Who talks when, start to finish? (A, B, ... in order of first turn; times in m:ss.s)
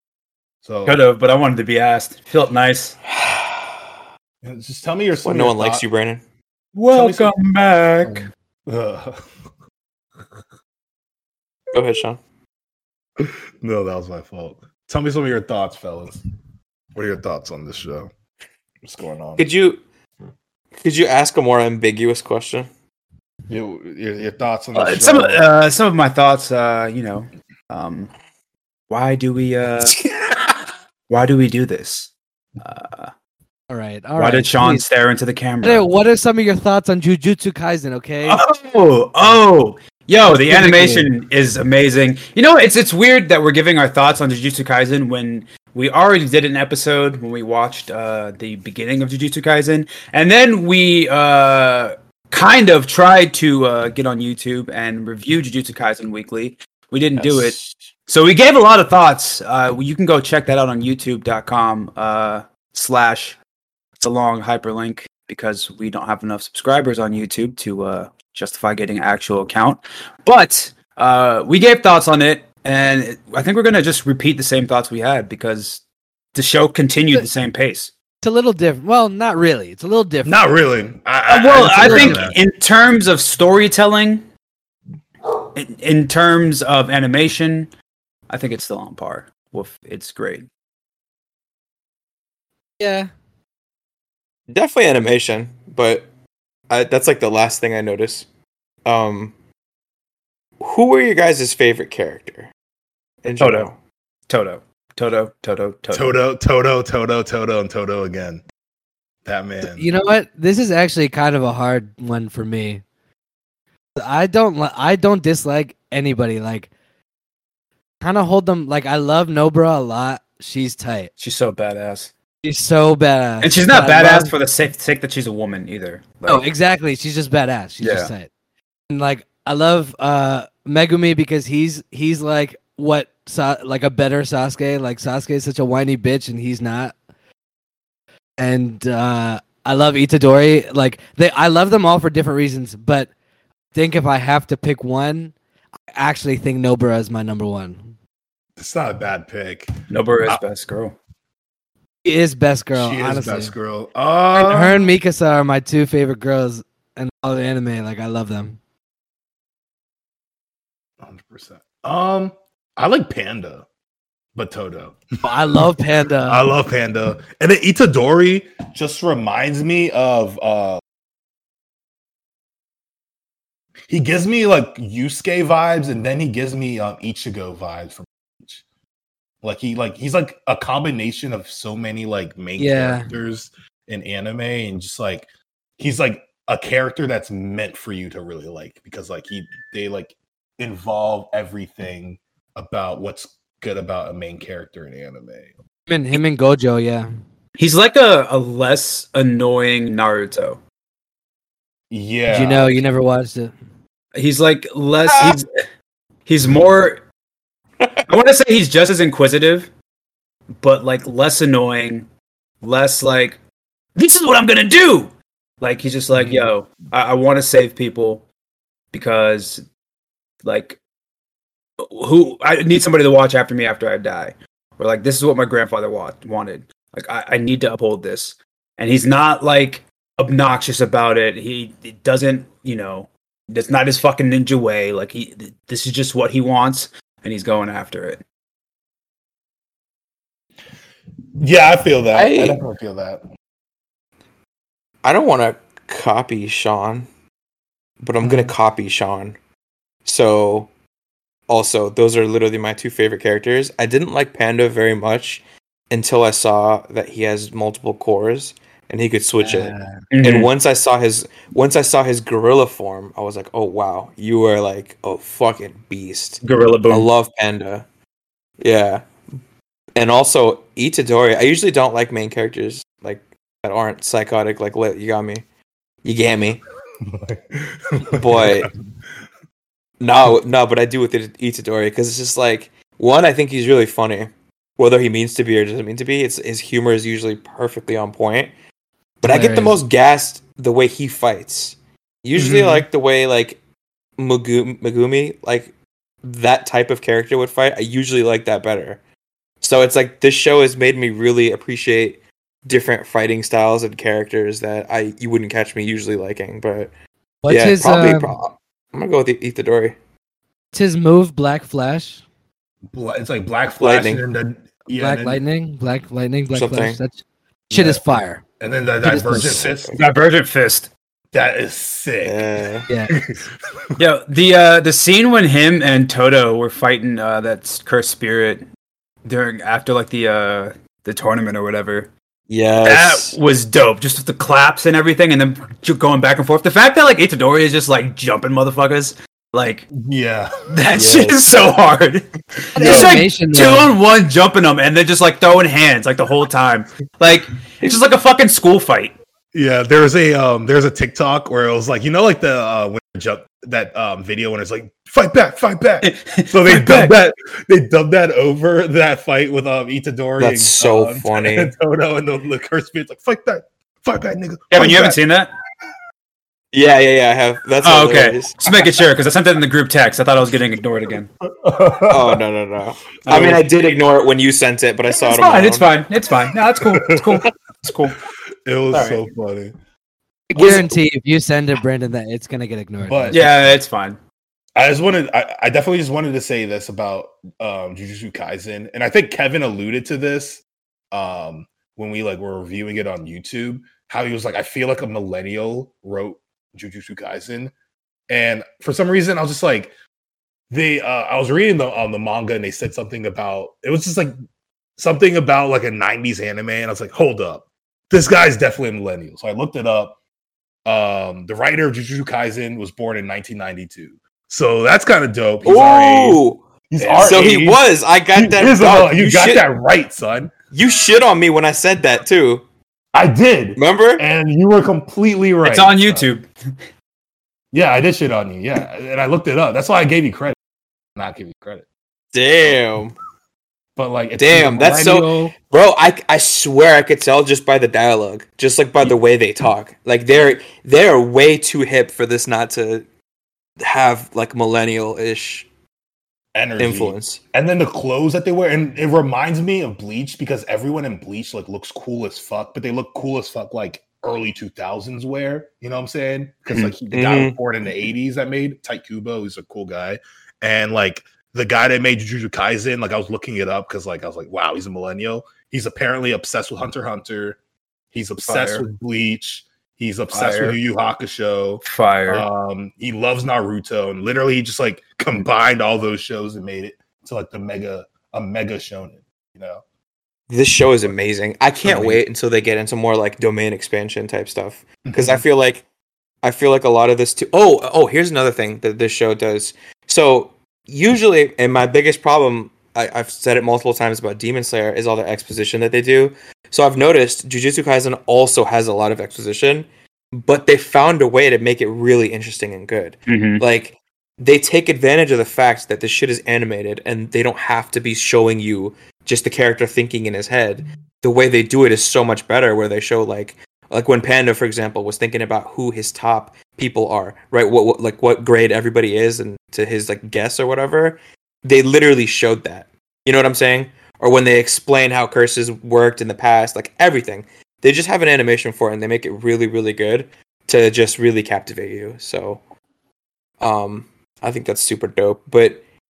0:00.6-0:01.0 A
0:00.8-0:03.0 B
0:03.1-0:03.7 C
0:04.4-0:05.8 A
0:05.2-0:06.2 C
0:06.7-0:08.3 B
0:06.9-0:07.3 A
0:08.0-0:09.2 A
0:11.7-0:12.2 C
0:13.2-0:16.2 A
0:16.9-0:18.1 A
0:18.8-0:19.4 A
0:19.4-0:19.8 C
0:20.8-0:22.7 C
0:23.5-0:25.4 A
0:24.7-0:28.1 B
0:28.9-0:30.0 B
0:31.1-0:33.1 B
0:33.7-0:34.8 D
0:34.2-0:35.9 B
0:35.6-0:38.4 D
0:38.2-1:03.4 B
0:40.2-0:41.1 D
0:57.2-0:57.8 C
1:04.0-1:15.8 B
1:16.3-1:17.9 B
1:18.2-1:20.4 D
1:20.2-1:22.4 A
1:21.3-1:24.2 B
1:21.8-1:22.2 D
1:25.5-1:27.7 B
1:28.3-1:30.5 B
1:32.8-1:33.1 D
1:34.5-1:36.0 C
1:36.7-1:38.2 C
1:38.8-1:39.3 C
1:40.6-1:42.5 C
1:43.2-1:43.8 C
1:43.4-1:43.7 B
1:44.3-1:46.2 B
1:45.9-1:48.4 A
1:49.2-1:49.9 A
1:49.6-1:52.8 D
1:54.0-1:56.7 D
1:58.0-2:01.1 D
2:01.2-2:02.1 B
2:02.4-2:04.3 D
2:03.4-2:06.5 B
2:06.2-2:08.3 D
2:07.8-2:08.1 B
2:08.9-2:16.9 D
2:18.4-2:23.1 D
2:23.7-2:25.3 D
2:25.9-2:27.8 D
2:28.6-2:29.7 A
2:29.9-2:31.0 B
2:32.0-2:33.5 D
2:32.7-2:34.9 A
2:34.3-2:38.6 D
2:41.0-2:43.6 A
2:44.3-2:45.0 A
2:45.2-2:46.5 D
2:46.3-2:50.8 A
2:53.9-2:58.6 A
2:59.4-3:15.5 A
3:02.6-3:03.1 D
3:15.9-3:17.1 D
3:17.6-3:20.6 B
3:21.9-3:22.8 A
3:22.3-3:23.5 D
3:24.1-3:25.5 B
3:25.1-3:25.4 C
3:26.2-3:27.0 B
3:28.1-3:29.7 B
3:30.6-3:32.1 B
3:32.6-3:33.4 B
3:34.0-3:38.2 B
3:38.9-3:39.6 B
3:40.4-3:40.8 B
3:41.8-3:58.2 B
4:01.4-4:03.2 A
4:02.1-4:02.6 C
4:05.0-4:07.1 C
4:08.0-4:09.4 C
4:08.2-4:08.5 A
4:10.0-4:10.7 C
4:11.5-4:27.8 C
4:19.4-4:20.5 B
4:26.4-4:27.1 B
4:28.6-4:29.0 C
4:29.9-4:35.4 C
4:36.0-4:36.6 C
4:37.0-4:38.7 A
4:38.0-4:38.7 C
4:40.0-4:48.5 C
4:49.2-4:53.6 C
4:49.2-4:49.8 D
4:52.4-4:52.8 A
4:54.2-4:55.7 C
4:56.2-4:59.0 C
4:59.6-5:06.9 C
5:07.4-5:08.3 D
5:07.5-5:09.9 C
5:10.7-5:12.2 D
5:12.9-5:15.4 A
5:13.8-5:14.2 C
5:15.0-5:18.4 D
5:16.5-5:17.0 C
5:17.7-5:18.0 A
5:18.6-5:20.0 A
5:19.0-5:19.7 D
5:19.7-5:20.0 C
5:19.9-5:20.9 B
5:21.3-5:22.4 A
5:22.2-5:22.9 C
5:22.9-5:23.2 D
5:23.1-5:24.0 A
5:24.0-5:28.6 B
5:29.2-5:32.1 B
5:32.5-5:33.4 C
5:32.8-5:39.9 B
5:39.9-5:40.6 A
5:40.7-5:49.1 B
5:40.9-5:41.5 C
5:42.7-5:43.9 D
5:42.8-5:43.2 A
5:49.5-6:05.2 A
5:56.0-5:57.1 B
6:00.4-6:01.7 C
6:04.7-6:05.5 B
6:06.7-6:08.6 C
6:07.8-6:11.3 B
6:11.6-6:12.4 A
6:12.1-6:15.9 C
6:13.2-6:13.6 B
6:15.1-6:18.2 B
6:16.8-6:17.4 A
6:18.6-6:19.7 A
6:18.9-6:19.2 B
6:20.5-6:23.4 D
6:20.6-6:20.8 A
6:20.6-6:20.8 B
6:23.0-6:23.6 A
6:23.3-6:24.2 B
6:24.7-6:37.7 A
6:38.3-6:39.9 A
6:40.7-6:44.3 A
6:45.0-6:50.2 A
6:50.8-7:00.5 A
6:55.6-6:56.6 C
6:57.0-6:57.6 B
6:57.2-6:59.6 C
7:00.7-7:02.6 C
7:03.1-7:06.3 A
7:03.8-7:04.2 C
7:05.6-7:06.5 B
7:07.7-7:10.6 A
7:11.2-7:11.8 A
7:12.3-7:13.1 C
7:14.0-7:15.5 A
7:14.4-7:23.0 C
7:23.8-7:25.7 C
7:26.5-7:47.6 A
7:26.8-7:27.4 C
7:37.1-7:37.6 C
7:48.1-7:59.8 A
7:48.4-7:48.8 B
7:50.3-7:50.8 B
7:51.8-7:52.4 B
8:00.5-8:05.8 C
8:01.8-8:02.2 A
8:05.0-8:05.4 A
8:06.4-8:52.6 C
8:23.3-8:23.6 B
8:53.6-8:55.8 C